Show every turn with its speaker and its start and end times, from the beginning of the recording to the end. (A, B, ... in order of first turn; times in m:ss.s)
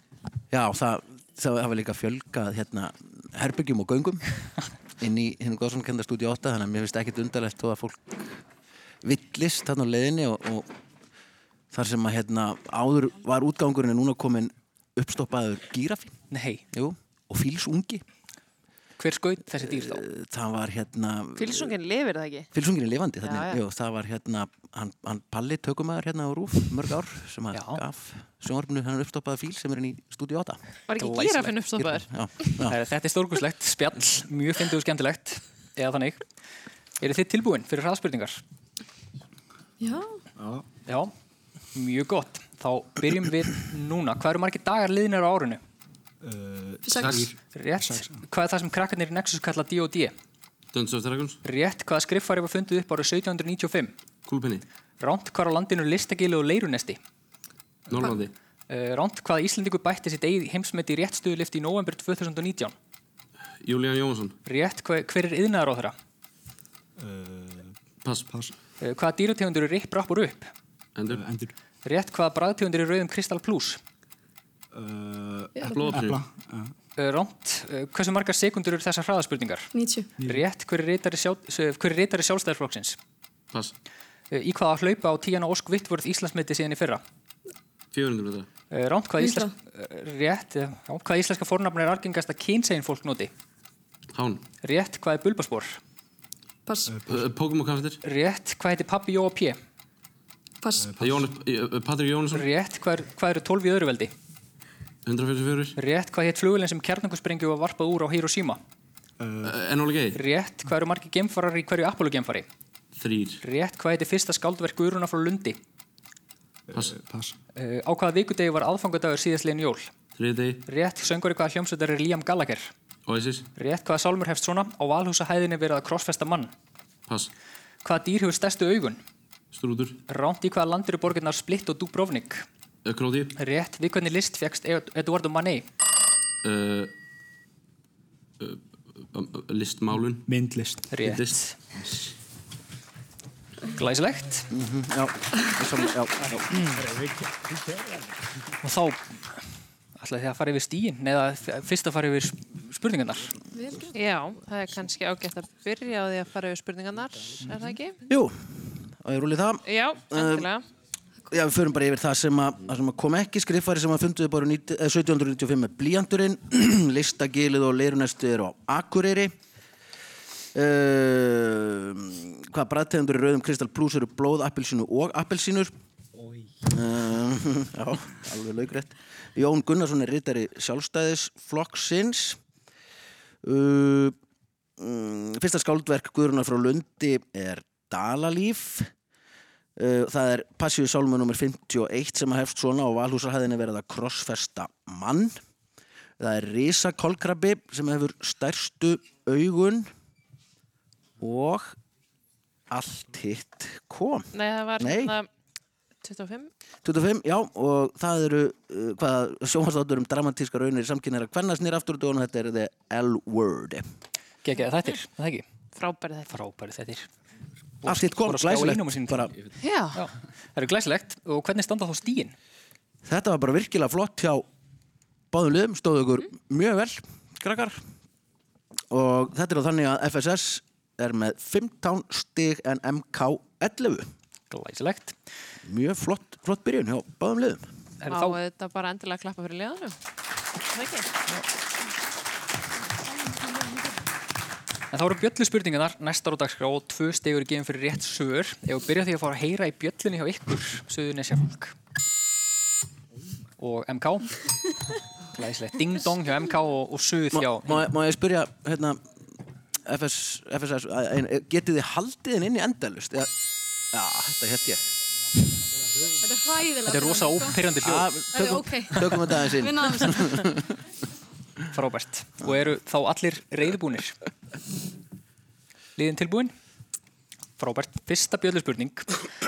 0:00.5-0:04.3 A
0:05.0-0:08.2 A
0:09.0-0:10.7 A
0:11.7-0:16.2 A
0:16.3-0:16.6 B
0:16.7-0:18.0 A
0:19.0-0:20.0 B
0:19.6-0:21.8 A
0:21.4-0:22.5 C
0:22.5-0:30.6 A
0:23.2-0:23.6 C
0:27.5-0:27.8 B
0:30.9-0:32.1 C
0:31.0-0:31.6 B
0:31.8-0:32.8 A
0:32.7-0:36.2 B
0:37.0-0:38.4 B
0:39.8-0:40.1 D
0:40.4-0:40.6 E
0:40.9-0:41.1 B
0:41.7-0:45.6 B
0:46.2-0:48.2 E
0:46.8-0:47.2 D
0:47.5-0:50.1 B
0:50.7-0:51.4 F
0:51.4-0:53.9 B
0:54.3-0:54.6 F
0:55.0-0:57.0 B
0:57.9-0:58.3 F
0:58.7-1:02.8 B
1:03.6-1:04.4 F
1:04.4-1:06.0 B
1:07.0-1:07.8 E
1:08.0-1:08.5 F
1:08.8-1:10.5 B
1:11.0-1:11.2 F
1:11.1-1:11.5 E
1:11.8-1:13.8 B
1:14.7-1:16.7 E
1:15.6-1:16.2 F
1:17.0-1:19.7 B
1:19.7-1:20.1 D
1:20.2-1:20.4 E
1:20.2-1:23.0 B
1:24.3-1:27.0 B
1:27.9-1:28.5 F
1:28.7-1:33.3 B
1:29.2-1:29.5 D
1:34.1-1:34.4 F
1:34.6-1:35.8 B
1:36.7-1:36.9 D
1:36.9-1:37.2 E
1:37.1-1:38.0 F
1:38.0-1:39.6 B
1:40.6-1:40.9 D
1:40.8-1:41.3 E
1:41.0-1:42.5 F
1:42.3-1:44.1 B
1:45.0-1:45.8 F
1:45.8-1:48.6 B
1:49.2-1:49.6 E
1:49.4-1:50.2 F
1:50.2-1:52.5 B
1:53.0-1:53.4 F
1:53.4-1:55.6 B
1:56.7-1:57.4 E
1:56.7-1:57.0 F
1:57.6-1:59.9 B
2:00.2-2:00.6 F
2:00.7-2:02.7 B
2:03.1-2:03.5 F
2:03.6-2:06.5 B
2:07.8-2:09.0 B
2:09.5-2:10.0 F
2:10.1-2:12.4 B
2:12.8-2:13.4 F
2:13.4-2:15.7 B
2:16.4-2:16.9 F
2:18.4-2:20.3 F
2:20.3-2:20.9 E
2:20.9-2:21.6 B
2:21.0-2:21.4 F
2:23.8-2:24.5 B
2:24.5-2:26.4 A
2:26.8-2:28.1 E
2:28.6-2:29.4 B
2:30.0-2:33.4 B
2:33.9-2:38.0 C
2:38.1-2:40.5 A
2:39.7-2:40.6 C
2:41.3-2:49.4 A
2:50.5-2:55.7 A
2:56.7-3:02.4 A
3:03.4-3:04.2 A
3:04.8-3:08.9 A
3:09.8-3:15.4 A
3:16.2-3:19.9 A
3:21.2-3:21.8 A
3:22.7-3:25.2 A
3:24.3-3:25.3 C
3:26.0-3:26.5 C
3:26.8-3:33.8 A
3:34.4-3:35.4 B
3:35.8-3:36.3 C
3:36.3-3:37.1 B
3:37.8-3:39.3 B
3:37.8-3:39.3 A
3:39.6-3:40.0 C
3:39.9-3:42.3 B
3:43.0-3:44.4 A
3:45.3-3:47.8 A
3:48.9-3:54.1 A
3:54.5-3:55.2 B
3:55.6-3:57.7 A
3:58.0-3:58.4 B
3:58.1-4:00.0 C
4:00.6-4:01.1 C
4:04.9-4:11.7 B
4:13.6-4:14.4 B
4:15.3-4:17.9 B
4:17.3-4:19.0 A
4:19.9-4:23.3 A
4:23.9-4:24.9 A
4:26.9-4:28.1 B
4:27.8-4:30.6 A
4:29.9-4:30.3 D
4:31.7-4:34.2 B
4:36.0-4:36.5 B
4:37.6-4:39.1 B